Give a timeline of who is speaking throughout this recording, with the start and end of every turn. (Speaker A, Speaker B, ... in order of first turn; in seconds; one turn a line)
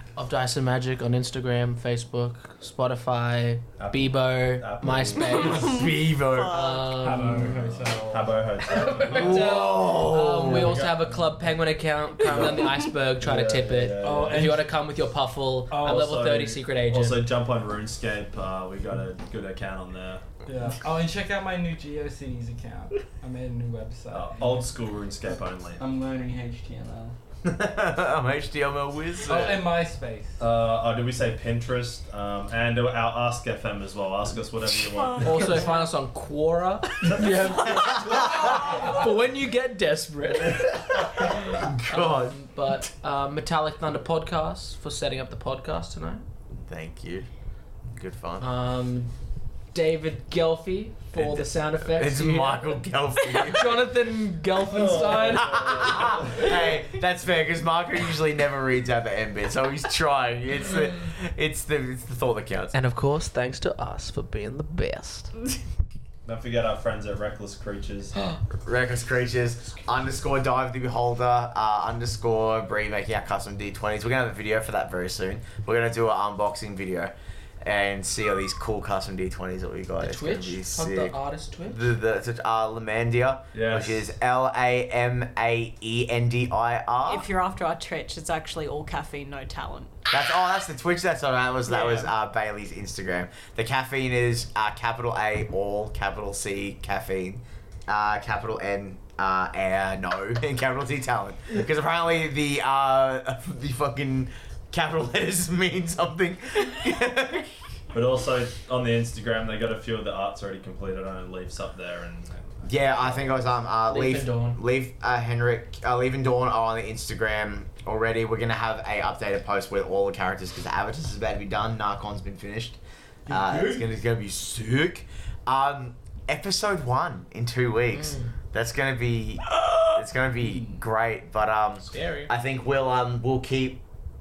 Speaker A: 0.2-5.8
Speaker B: 3.8-5.8
Speaker C: 5.5-6.9
Speaker D: 5.5-6.7
Speaker A: 6.5-7.6
Speaker E: 6.9-9.1
Speaker B: 7.4-9.3
Speaker A: 8.6-17.2
Speaker D: 9.0-10.8
Speaker B: 10.5-11.4
Speaker B: 12.2-14.6
Speaker E: 14.0-14.7
Speaker E: 15.7-16.2
Speaker B: 15.8-20.4
Speaker E: 20.5-27.2
Speaker B: 24.1-25.8
Speaker D: 27.4-29.6
Speaker E: 29.2-30.4
Speaker B: 30.4-35.6
Speaker A: 35.2-46.2
Speaker C: 35.3-35.8
Speaker B: 37.1-37.6
Speaker D: 41.4-42.4
Speaker D: 46.5-47.3
Speaker D: 47.9-48.5
Speaker A: 48.4-49.1
Speaker A: 49.7-52.7
Speaker D: 51.1-53.9
Speaker A: 53.4-56.0
Speaker B: 54.6-56.5
Speaker E: 54.9-55.5
Speaker D: 55.3-62.7
Speaker A: 62.7-65.3
Speaker B: 66.2-68.2
Speaker D: 68.6-87.3
Speaker A: 80.0-81.9
Speaker B: 83.5-84.1
Speaker C: 87.1-89.9
Speaker D: 90.1-107.5
Speaker C: 91.7-92.1
Speaker B: 107.9-113.3
Speaker D: 112.7-133.8
Speaker A: 113.9-114.6
Speaker A: 127.9-128.3
Speaker A: 131.9-132.3